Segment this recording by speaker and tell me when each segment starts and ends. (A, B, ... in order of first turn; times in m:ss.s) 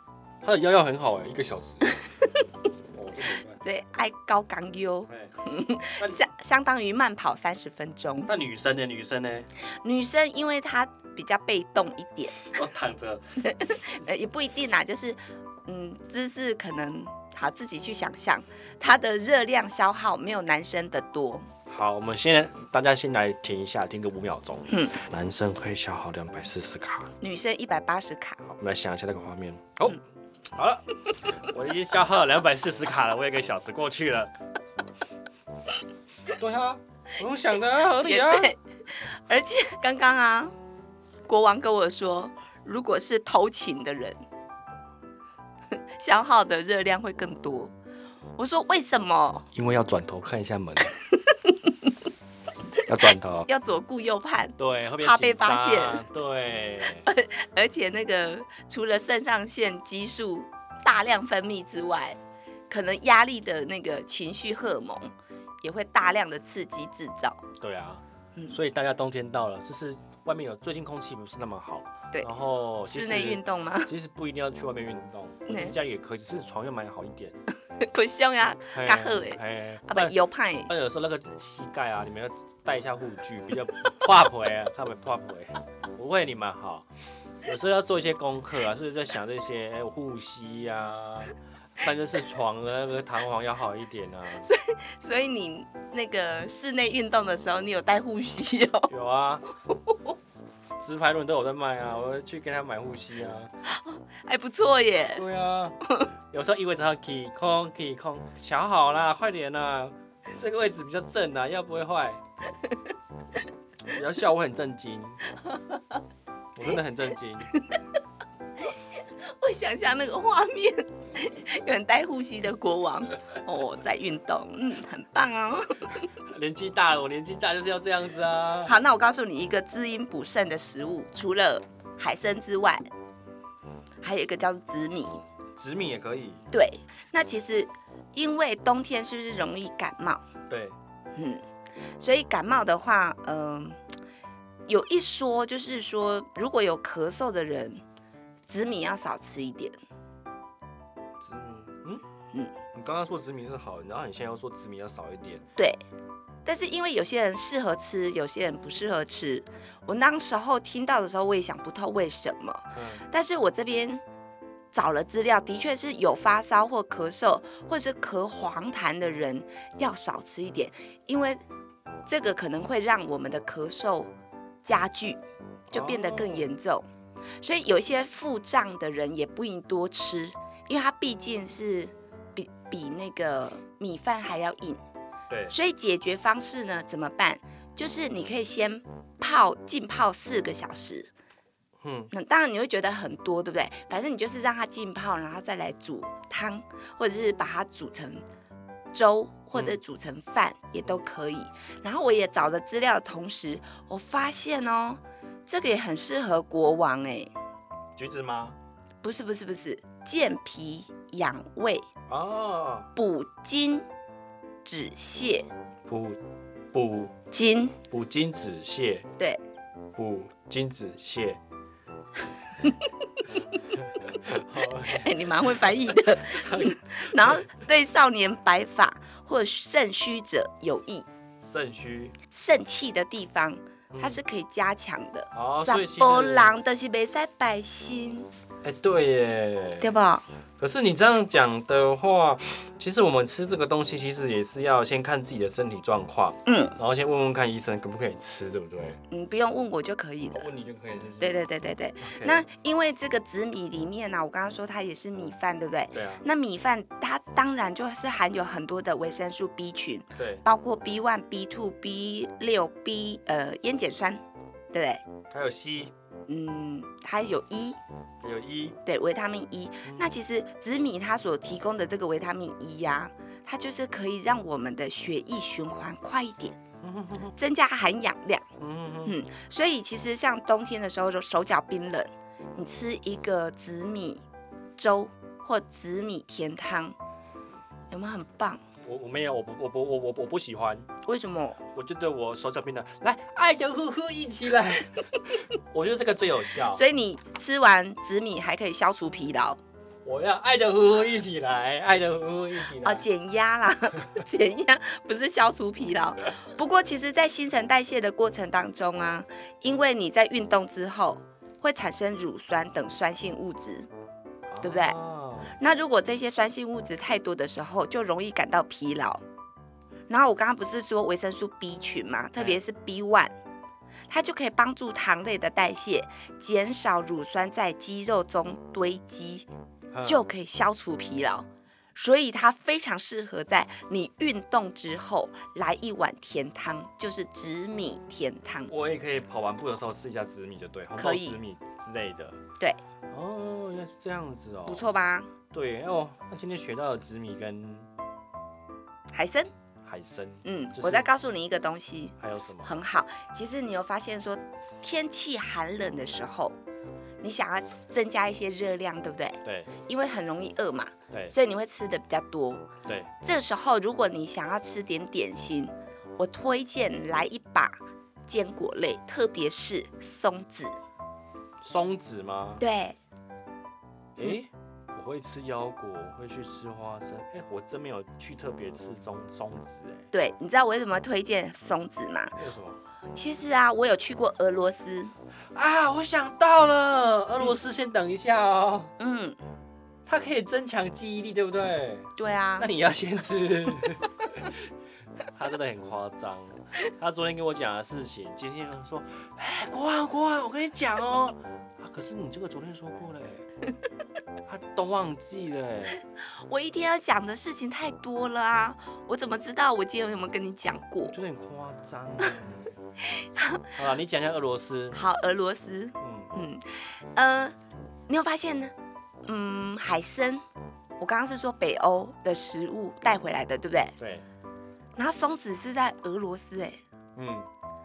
0:00.4-0:02.0 A
0:02.9-0:03.6 A
0:03.6-0:08.3 B
0:05.1-0:05.4 A
0:06.0-0:06.3 A
0:08.3-0:09.5 A
0:09.6-0:12.5 B
0:12.5-0:13.3 A
0:13.4-0:21.5 B
0:21.7-0:27.1 A
0:24.7-0:25.0 B
0:27.2-0:28.5 B
0:28.6-0:30.0 A
0:30.5-0:34.3 A
0:36.4-0:38.5 A
0:38.0-0:40.5 B
0:41.3-0:44.2 B
0:46.0-0:47.7 B
0:48.4-0:49.5 B
0:49.5-0:50.9 A
0:51.0-0:51.8 B
0:52.9-0:53.5 A
0:53.5-0:56.0 B
0:54.6-0:57.1 A
0:57.0-1:02.2 B
1:02.7-1:07.4 B
1:07.6-1:17.4 A
1:12.8-1:13.9 B
1:15.5-1:15.7 B
1:17.7-1:20.7 B
1:18.7-1:20.2 A
1:20.7-1:26.9 A
1:27.4-1:34.4 A
1:34.4-1:38.9 B
1:38.9-1:39.5 A
1:40.8-1:43.5 A
1:43.7-1:45.2 B
1:45.1-1:45.8 A
1:45.8-1:46.1 B
1:46.3-1:52.2 A
1:53.9-1:55.2 A
1:56.6-1:57.5 A
1:59.2-2:06.1 B
2:06.3-2:08.8 A
2:08.6-2:12.9 B
2:14.0-2:15.2 B
2:15.6-2:16.4 A
2:16.5-2:20.2 B
2:20.5-2:20.8 A
2:21.2-2:21.4 B
2:22.0-2:23.8 B
2:24.7-2:27.8 B
2:28.5-2:29.8 B
2:31.2-2:32.0 A
2:32.7-2:35.4 A
2:36.4-2:44.0 B
2:42.8-2:43.0 A
2:44.7-2:51.4 B
2:52.1-2:54.1 B
2:54.6-2:56.9 B
2:55.7-2:56.5 A
2:57.4-3:04.8 B
3:05.3-3:05.6 A
3:05.5-3:11.1 B
3:11.8-3:12.1 A
3:12.1-3:18.2 B
3:18.9-3:27.3 B
3:28.0-3:28.6 A
3:29.0-3:31.9 B
3:32.1-3:32.9 A
3:33.0-3:33.8 B
3:34.6-3:35.5 B
3:35.9-3:36.2 A
3:36.7-3:37.1 A
3:37.3-3:37.8 B
3:37.9-3:39.1 A
3:40.0-3:41.4 A
3:43.6-3:47.4 A
3:44.9-3:51.1 B
3:51.4-3:52.2 A
3:52.3-3:58.3 B
3:53.9-3:54.2 A
3:55.3-3:56.5 A
3:58.6-4:00.0 A
3:59.8-4:00.3 B
4:00.6-4:09.0 A
4:06.5-4:06.8 B
4:09.1-4:10.5 B
4:10.4-4:11.4 A
4:11.2-4:25.0 B
4:12.0-4:12.4 A
4:15.9-4:16.2 A
4:20.2-4:20.4 A
4:25.3-4:25.9 A
4:26.3-4:27.8 B
4:28.2-4:28.8 A
4:28.9-4:36.6 B
4:29.8-4:30.2 A
4:36.8-4:37.3 A
4:37.4-4:38.4 B
4:38.6-4:39.2 A
4:39.0-4:44.2 B
4:44.8-4:47.0 B
4:47.9-4:48.6 B
4:48.8-4:50.9 A
4:51.0-4:51.6 B
4:51.7-4:56.8 A
4:56.7-4:59.6 B
5:00.0-5:03.0 A
5:02.8-5:13.9 B
5:14.5-5:15.6 A
5:14.6-5:15.0 B
5:15.6-5:19.2 B
5:20.1-5:23.3 B
5:22.4-5:22.6 A
5:24.1-5:29.5 B
5:29.9-5:30.3 A
5:30.0-5:38.7 B
5:38.7-5:42.4 A
5:41.0-5:41.4 B
5:43.1-5:44.9 A
5:44.7-5:45.3 B
5:45.5-5:47.9 A
5:49.1-5:49.5 B
5:49.8-5:51.1 A
5:50.4-5:56.6 B
5:52.2-5:52.7 A
5:57.2-6:02.6 B
5:59.4-5:59.7 A
6:02.9-6:03.1 A
6:03.2-6:10.8 B
6:11.6-6:12.6 A
6:12.6-6:13.0 B
6:14.2-6:20.1 A
6:20.1-6:22.4 B
6:22.4-6:22.8 A
6:23.1-6:25.1 B
6:25.5-6:28.9 A
6:29.0-6:29.4 B
6:30.1-6:34.6 A
6:32.2-6:32.7 B
6:35.4-6:43.5 A
6:44.5-6:46.0 A
6:46.4-6:51.2 B
6:51.1-6:52.8 A
6:53.1-6:53.7 B
6:53.8-6:55.0 A
6:54.9-6:57.6 B
6:56.0-6:56.5 A
6:58.1-6:58.7 B
6:59.3-7:00.4 B
7:01.0-7:04.0 B
7:04.0-7:04.3 A
7:05.0-7:06.8 B
7:07.2-7:07.5 A